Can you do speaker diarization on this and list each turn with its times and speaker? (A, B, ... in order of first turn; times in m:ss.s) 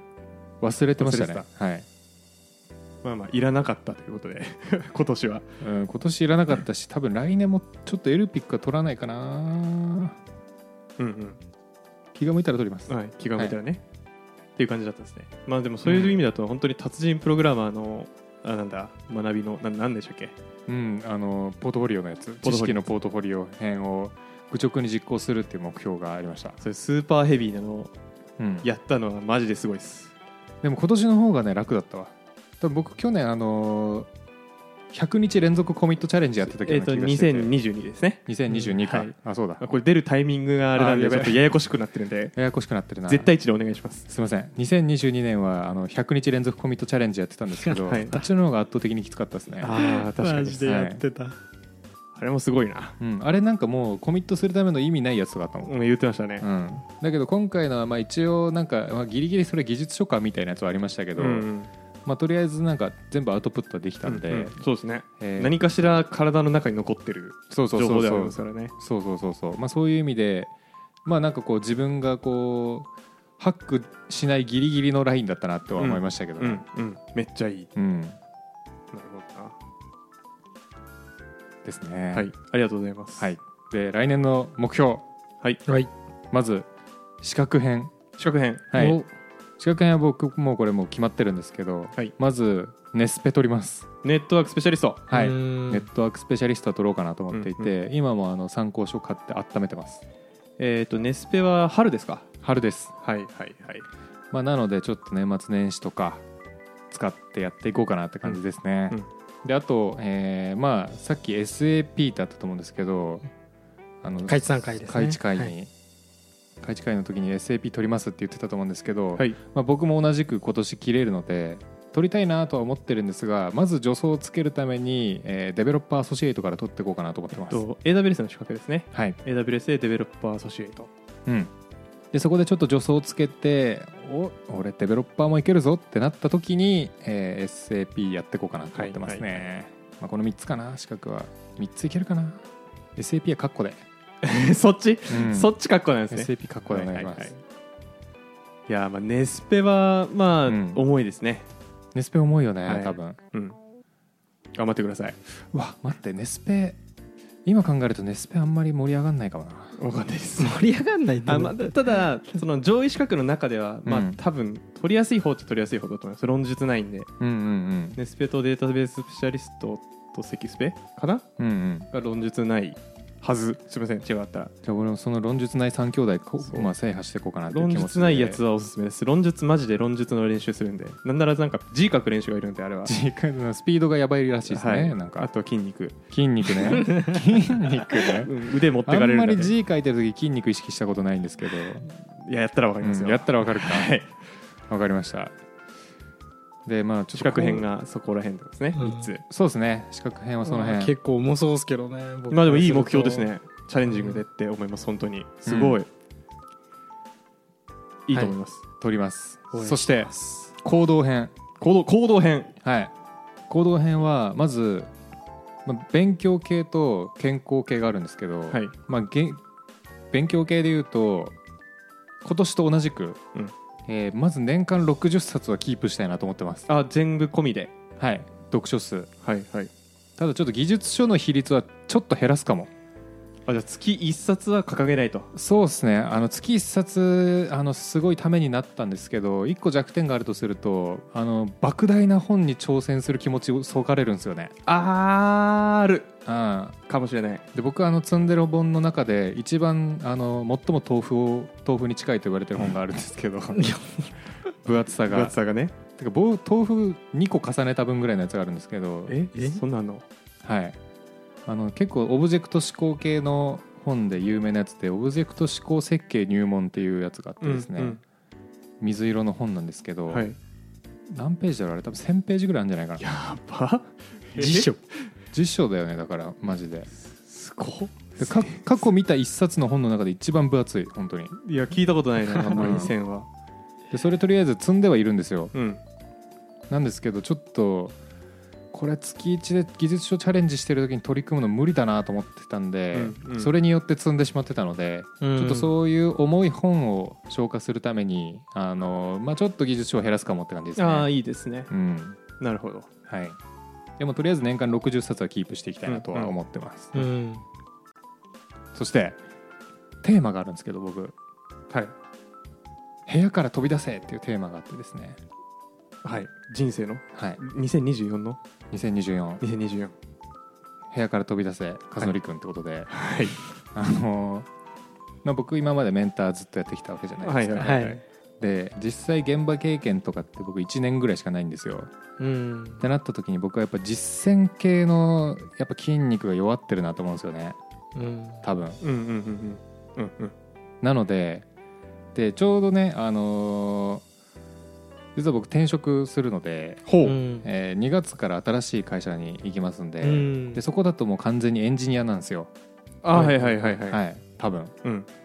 0:00.6-0:01.8 A
0:01.0-0:01.4 B
0:03.0-0:05.5 B
0:05.6-0:10.2 A
0:11.0-0:11.4 B
0:12.1-0:13.6 A
0:12.9-0:13.8 B
0:14.6-0:20.3 B
0:15.8-0:16.2 A
0:20.7-0:26.6 A
0:22.4-0:22.8 B
0:26.6-0:27.9 B
0:28.4-0:28.7 A
0:28.6-0:30.1 B
0:30.6-0:34.1 A
0:34.9-0:37.5 A
0:36.5-0:42.3 B
0:38.2-0:39.6 A
0:40.7-0:41.4 A
0:42.3-0:43.3 A
0:43.1-0:44.1 B
0:44.1-0:49.7 A
0:47.6-0:48.2 C
0:47.8-0:48.2 B
0:49.6-0:50.8 B
0:49.6-0:51.4 C
0:50.6-0:51.0 A
0:52.1-0:53.0 B
0:53.0-0:55.7 A
0:55.6-0:56.5 B
0:56.4-1:01.5 A
1:01.2-1:01.7 B
1:02.0-1:04.6 A
1:04.0-1:08.7 B
1:05.2-1:05.6 A
1:07.5-1:10.5 A
1:11.0-1:12.9 A
1:13.4-1:16.6 A
1:15.8-1:17.7 B
1:17.7-1:18.2 A
1:18.9-1:19.6 B
1:21.6-1:22.3 A
1:22.1-1:23.3 B
1:23.2-1:25.0 A
1:26.3-1:26.7 A
1:27.2-1:27.9 A
1:28.2-1:28.6 B
1:28.7-1:29.0 A
1:28.7-1:29.1 C
1:29.6-1:33.9 A
1:34.0-1:35.0 B
1:35.1-1:40.0 A
1:35.1-1:35.9 C
1:37.3-1:37.7 B
1:40.6-1:42.3 B
1:42.4-1:42.9 A
1:43.0-1:43.8 B
1:44.3-1:46.2 A
1:46.9-1:53.2 A
1:54.0-1:55.7 A
1:54.3-1:55.5 C
1:56.6-2:07.6 A
2:07.3-2:10.9 B
2:11.2-2:11.5 A
2:12.1-2:22.4 A
2:18.7-2:19.4 B
2:23.0-2:23.8 A
2:24.2-2:27.4 B
2:25.1-2:25.5 A
2:26.1-2:27.3 A
2:28.7-2:31.5 B
2:30.4-2:30.8 A
2:31.9-2:33.2 A
2:32.6-2:33.6 B
2:34.5-2:35.2 B
2:35.4-2:36.8 A
2:37.4-2:39.8 A
2:39.8-2:40.6 B
2:40.4-2:42.0 C
2:41.2-2:47.1 B
2:43.8-2:44.2 A
2:47.2-2:48.0 A
2:48.0-2:51.2 B
2:51.4-2:51.9 A
2:51.9-2:54.5 B
2:54.6-2:58.4 A
2:56.4-2:56.7 B
2:57.5-3:02.9 B
3:02.8-3:05.3 A
3:04.5-3:07.0 B
3:06.1-3:08.3 A
3:08.0-3:09.5 B
3:08.8-3:11.9 A
3:11.9-3:14.1 B
3:12.8-3:13.9 A
3:14.7-3:15.3 A
3:16.6-3:17.7 A
3:17.1-3:19.2 B
3:18.8-3:19.1 C
3:19.3-3:20.9 A
3:20.4-3:23.3 C
3:22.3-3:25.9 B
3:23.9-3:24.2 C
3:25.4-3:25.8 A
3:28.1-3:28.6 B
3:28.8-3:31.3 A
3:29.5-3:30.5 C
3:31.6-3:32.5 B
3:32.6-3:32.9 A
3:33.5-3:34.9 A
3:35.6-3:39.4 A
3:40.1-3:41.4 A
3:42.2-3:43.2 A
3:43.8-3:46.7 A
3:46.7-3:47.7 B
3:48.0-3:49.1 A
3:49.2-3:49.7 B
3:50.2-3:52.7 A
3:53.5-3:55.3 B
3:55.3-4:04.5 A
4:04.6-4:06.1 B
4:06.2-4:06.8 A
4:06.9-4:07.4 B
4:07.5-4:13.8 A
4:13.6-4:13.8 C
4:14.6-4:15.3 A
4:15.1-4:15.7 B
4:15.9-4:19.2 A
4:19.1-4:20.0 B
4:20.4-4:20.8 A
4:21.4-4:28.0 A
4:27.4-4:28.0 B
4:28.8-4:30.3 A
4:30.1-4:30.4 B
4:31.1-4:33.0 A
4:33.0-4:34.7 B
4:34.4-4:34.8 C
4:35.3-4:36.9 A
4:37.2-4:38.6 B
4:38.2-4:41.3 A
4:41.4-4:43.3 B
4:42.5-4:42.9 A
4:43.9-4:45.5 A
4:45.5-4:45.8 B
4:46.7-4:48.0 A
4:48.7-5:01.1 A
4:52.9-4:53.5 B
4:55.2-4:55.7 C
5:00.8-5:01.7 B
5:01.7-5:02.2 A
5:02.4-5:02.9 B
5:03.1-5:03.4 A
5:04.0-5:07.1 A
5:05.9-5:06.4 B
5:06.9-5:07.4 C
5:08.7-5:09.2 A
5:10.0-5:11.1 A
5:13.0-5:15.2 A
5:16.0-5:18.4 B
5:17.1-5:17.4 A
5:18.7-5:19.4 A
5:19.4-5:19.9 B
5:20.9-5:22.9 A
5:22.9-5:23.4 B
5:23.7-5:24.5 A
5:25.2-5:27.8 A
5:27.2-5:28.0 B
5:27.6-5:28.0 C
5:28.4-5:31.9 A
5:32.2-5:32.8 C
5:32.8-5:37.6 A
5:38.0-5:38.4 C
5:38.4-5:38.8 A
5:38.8-5:40.3 B
5:40.8-5:41.4 A
5:42.1-5:44.0 A
5:45.1-5:46.8 A
5:46.8-5:47.2 B
5:47.0-5:47.5 C
5:47.4-5:52.5 A
5:50.0-5:50.6 C
5:53.0-5:54.0 B
5:53.1-5:54.7 A